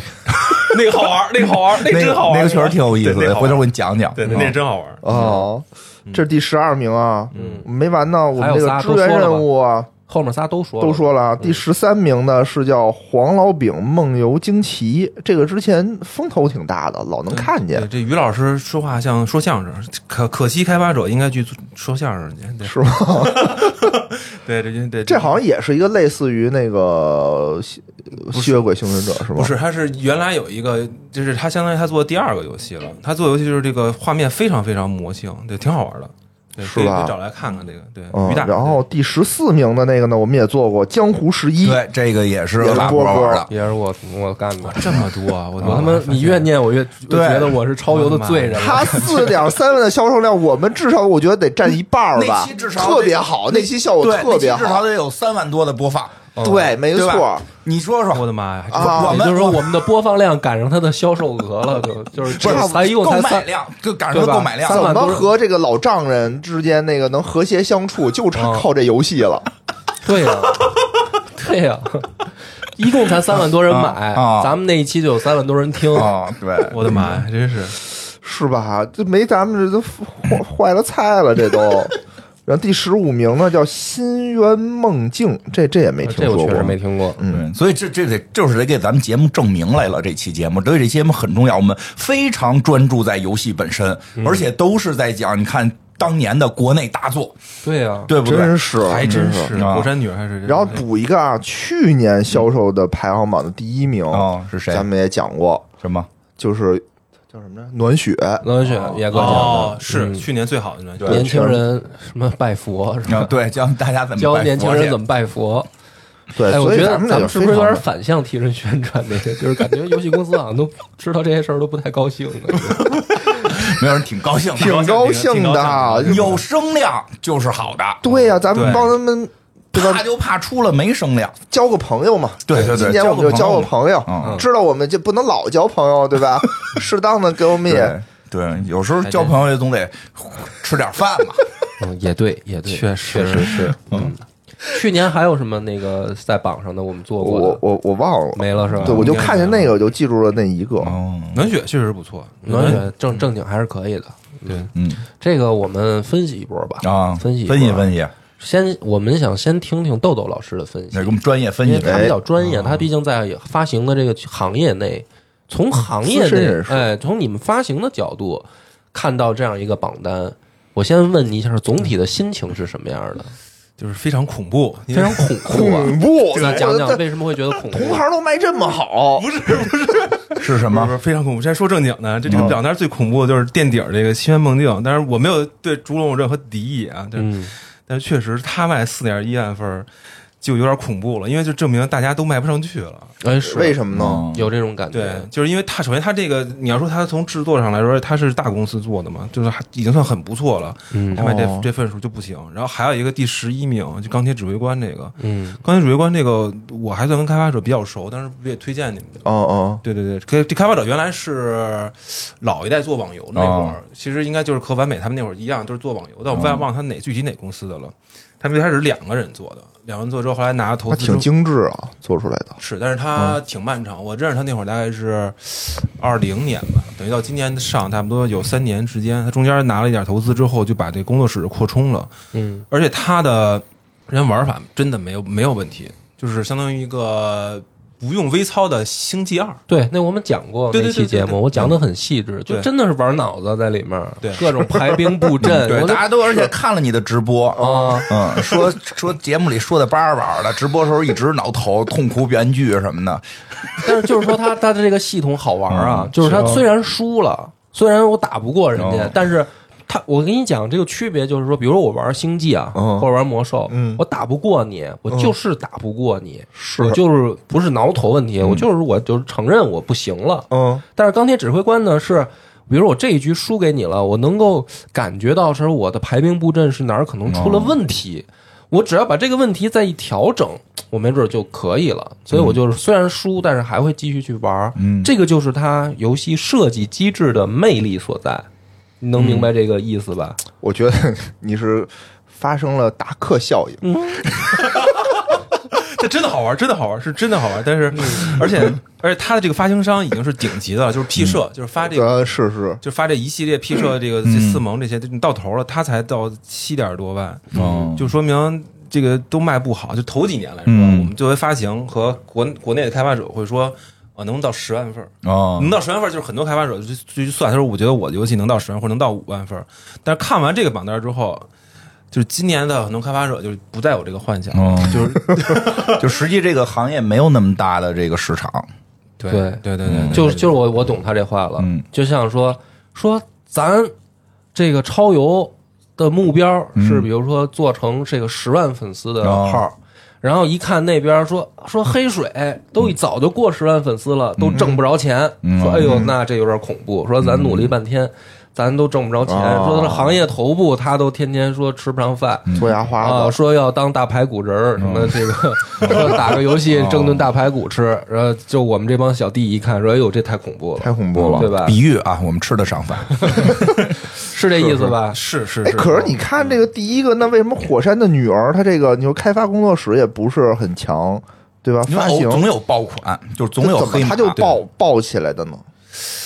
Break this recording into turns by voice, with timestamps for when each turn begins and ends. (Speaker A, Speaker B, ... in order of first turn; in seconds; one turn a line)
Speaker A: 0.2-4.6
Speaker B: 0.6-5.3
Speaker C: 5.0-9.9
Speaker D: 5.1-5.5
Speaker B: 7.3-7.7
Speaker D: 7.3-7.7
Speaker D: 8.3-9.5
Speaker D: 10.1-11.6
Speaker C: 10.8-17.9
Speaker B: 17.3-25.4
Speaker C: 22.6-23.7
Speaker C: 25.1-29.5
Speaker B: 28.3-38.8
Speaker C: 36.6-37.1
Speaker C: 38.1-41.8
Speaker A: 41.6-43.5
Speaker C: 42.6-43.5
Speaker D: 43.5-45.0
Speaker B: 44.7-46.5
Speaker A: 45.6-45.9
Speaker D: 45.6-49.3
Speaker A: 47.1-47.6
Speaker B: 47.9-49.3
Speaker C: 48.5-54.8
Speaker A: 52.1-56.2
Speaker D: 56.4-56.8
Speaker C: 56.4-57.4
Speaker A: 56.9-59.8
Speaker B: 58.1-59.2
Speaker C: 58.7-59.2
Speaker D: 58.8-63.5
Speaker A: 62.3-65.0
Speaker C: 62.3-62.7
Speaker D: 64.1-65.3
Speaker C: 64.6-69.5
Speaker D: 68.3-68.7
Speaker D: 70.0-70.7
Speaker D: 71.2-76.1
Speaker A: 73.5-74.5
Speaker A: 75.9-77.1
Speaker B: 76.7-77.8
Speaker C: 78.1-87.4
Speaker D: 86.0-87.2
Speaker A: 87.3-97.4
Speaker D: 94.2-94.5
Speaker D: 97.6-98.1
Speaker A: 98.1-99.9
Speaker C: 98.2-99.6
Speaker B: 98.7-100.9
Speaker C: 100.4-105.7
Speaker A: 104.1-104.9
Speaker A: 105.8-106.1
Speaker C: 106.4-108.4
Speaker D: 108.4-110.2
Speaker B: 108.6-111.2
Speaker C: 111.0-111.6
Speaker D: 111.0-113.3
Speaker A: 113.1-115.0
Speaker D: 114.2-115.7
Speaker C: 116.3-117.8
Speaker D: 116.5-123.0
Speaker A: 123.2-124.8
Speaker C: 124.5-126.4
Speaker B: 124.5-126.4
Speaker A: 126.0-128.0
Speaker C: 128.0-130.0
Speaker D: 128.1-128.4
Speaker B: 128.5-129.0
Speaker A: 129.7-131.4
Speaker C: 131.5-138.0
Speaker A: 132.4-134.4
Speaker D: 134.2-134.5
Speaker A: 137.6-141.5
Speaker B: 139.0-139.3
Speaker D: 141.8-147.6
Speaker B: 142.7-143.7
Speaker A: 143.4-144.1
Speaker C: 147.2-151.0
Speaker D: 148.3-149.1
Speaker A: 148.7-149.1
Speaker B: 148.8-149.8
Speaker A: 150.8-151.5
Speaker B: 151.3-152.9
Speaker D: 152.4-173.3
Speaker A: 154.7-155.0
Speaker A: 156.8-158.1
Speaker A: 160.9-162.2
Speaker C: 161.8-162.2
Speaker C: 166.0-166.9
Speaker B: 173.8-175.7
Speaker D: 174.9-178.0
Speaker C: 175.4-177.0
Speaker B: 176.3-176.7
Speaker C: 177.7-179.3
Speaker B: 179.1-189.9
Speaker A: 180.4-180.9
Speaker A: 182.3-182.6
Speaker D: 187.2-187.5
Speaker B: 190.4-193.1
Speaker D: 193.2-195.3
Speaker C: 193.4-194.3
Speaker A: 193.9-194.5
Speaker B: 194.9-209.3
Speaker D: 200.9-201.2
Speaker C: 201.1-201.7
Speaker D: 205.2-205.6
Speaker C: 209.2-209.8
Speaker B: 209.8-221.3
Speaker A: 213.3-213.8
Speaker A: 216.3-216.7
Speaker C: 220.9-222.6
Speaker B: 222.6-232.1
Speaker D: 232.3-232.6
Speaker B: 232.7-239.6
Speaker D: 239.7-246.4
Speaker B: 240.7-241.4
Speaker B: 244.2-244.5
Speaker A: 245.4-254.2
Speaker C: 247.5-248.6
Speaker D: 247.6-248.1
Speaker D: 253.8-288.5
Speaker A: 255.7-256.6
Speaker A: 258.8-259.2
Speaker C: 262.7-263.1
Speaker C: 263.7-264.0
Speaker C: 266.6-267.0
Speaker A: 268.4-268.6
Speaker C: 270.5-270.8
Speaker A: 277.3-277.8
Speaker A: 282.3-282.6
Speaker A: 284.8-285.1
Speaker D: 289.0-290.4
Speaker A: 289.2-289.5
Speaker C: 290.6-294.7
Speaker D: 293.8-294.3
Speaker B: 294.5-295.0
Speaker B: 295.7-321.5
Speaker D: 298.0-298.4
Speaker C: 301.8-302.8
Speaker A: 304.2-304.6
Speaker A: 307.5-308.1
Speaker A: 310.6-311.1
Speaker A: 315.2-315.8
Speaker B: 322.1-326.1
Speaker A: 324.5-328.7
Speaker B: 329.2-330.6
Speaker D: 329.3-333.9
Speaker A: 329.8-330.4
Speaker A: 331.6-331.8
Speaker D: 334.5-361.8
Speaker A: 336.8-337.1
Speaker A: 339.2-339.6
Speaker A: 344.4-344.8
Speaker A: 345.4-346.1
Speaker C: 345.8-346.1
Speaker A: 347.2-347.7
Speaker C: 349.2-350.2
Speaker A: 352.5-352.7
Speaker C: 352.5-353.4
Speaker A: 354.8-355.2
Speaker A: 355.8-357.3
Speaker C: 360.8-361.5
Speaker A: 361.1-363.7
Speaker D: 363.2-365.2
Speaker C: 364.6-364.9
Speaker B: 365.1-366.6
Speaker C: 365.6-372.5
Speaker A: 371.9-374.5
Speaker C: 373.6-375.6